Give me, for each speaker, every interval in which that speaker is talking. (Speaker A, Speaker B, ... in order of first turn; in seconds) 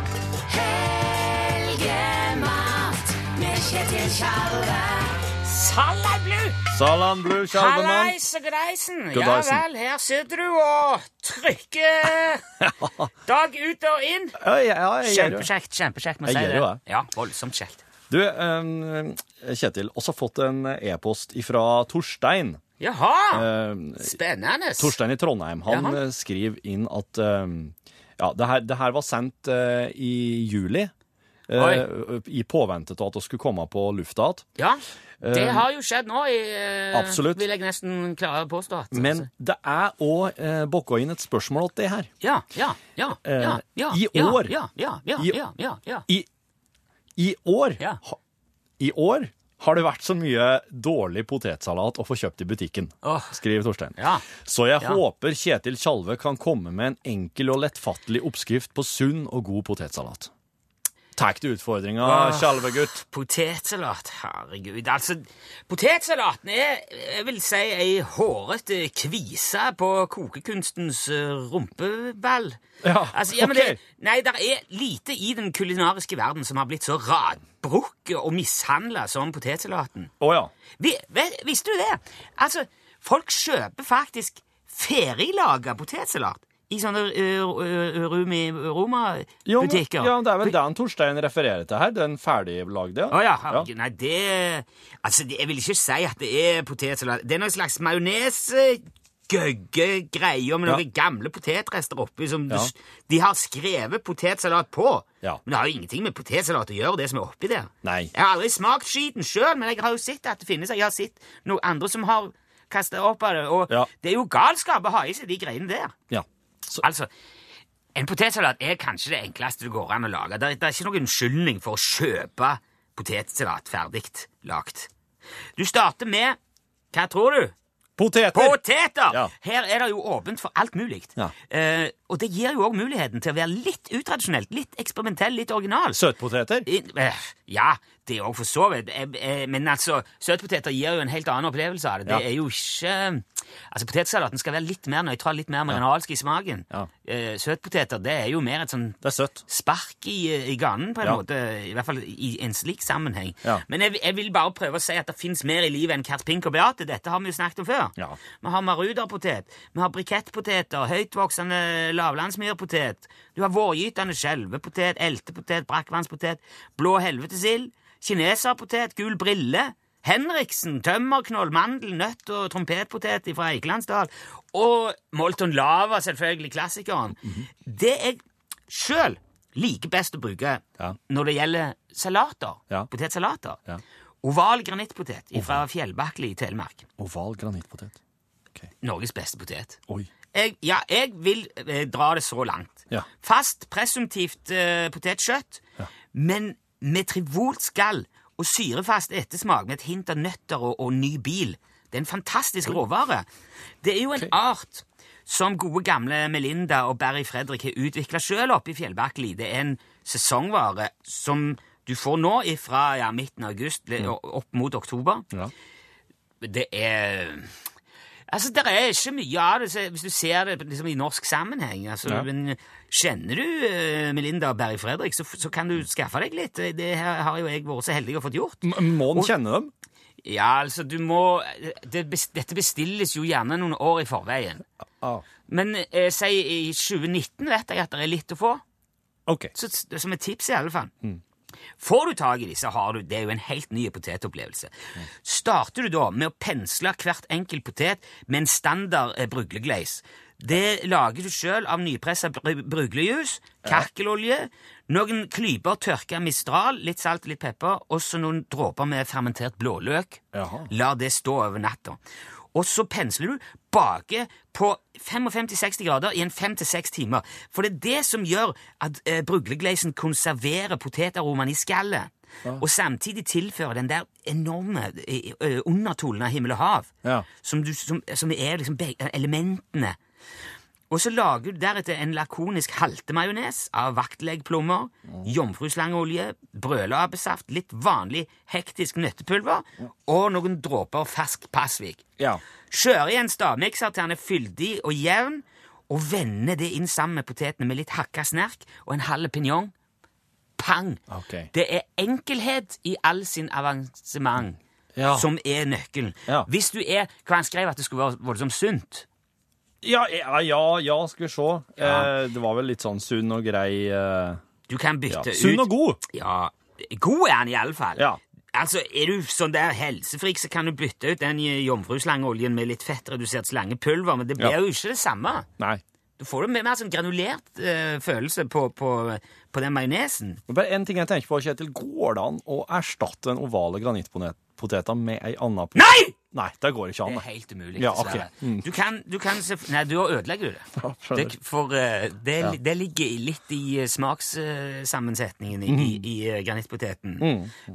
Speaker A: 0.5-6.6, 7.5-12.4, 13.2-14.4, 15.0-17.8, 22.8-23.5, 24.0-24.9, 25.7-26.0, 31.6-31.9, 34.6-39.3, 42.2-46.0, 53.0-53.4, 54.0-54.3, 62.0-72.6, 73.1-80.1, 80.8-90.5, 93.1-115.9, 116.8-117.1, 117.9-124.9, 125.6-126.4, 126.9-127.5, 128.3-136.0, 136.7-183.6, 184.2-186.9, 188.8-189.8, 190.3-195.6, 196.1-203.2, 203.8-215.2, 216.4-217.5, 218.3-229.3, 230.2-234.6, 235.5-238.6, 239.5-240.9, 241.8-244.7, 245.2-262.0, 262.5-280.0, 280.9-292.0, 292.7-299.7, 300.6-304.6, 305.1-309.1, 311.8-312.1, 314.7-325.5, 326.2-330.4, 335.8-336.1, 337.0-347.3
Speaker B: 6.7-8.2, 9.1-9.6, 12.6-12.9, 14.4-15.5, 16.2-16.8, 18.1-22.6, 23.3-24.1, 24.8-30.9, 31.5-34.4, 35.2-35.6, 36.9-37.4, 38.9-42.1, 43.2-44.5, 47.2-48.2, 48.8-60.3, 61.1-63.0, 72.8-73.8, 80.2-80.5, 89.4-93.7, 107.8-108.1, 116.1-116.8, 128.0-128.6, 135.9-136.7, 149.0-149.4, 185.3-185.6, 187.0-188.0, 228.6-229.7, 239.3-239.5, 260.3-260.7, 301.1-301.5, 304.9-305.3, 309.8-314.4, 315.1-316.0, 330.5-337.2, 337.8-338.7, 340.8-341.3, 345.7-346.0, 347.2-347.6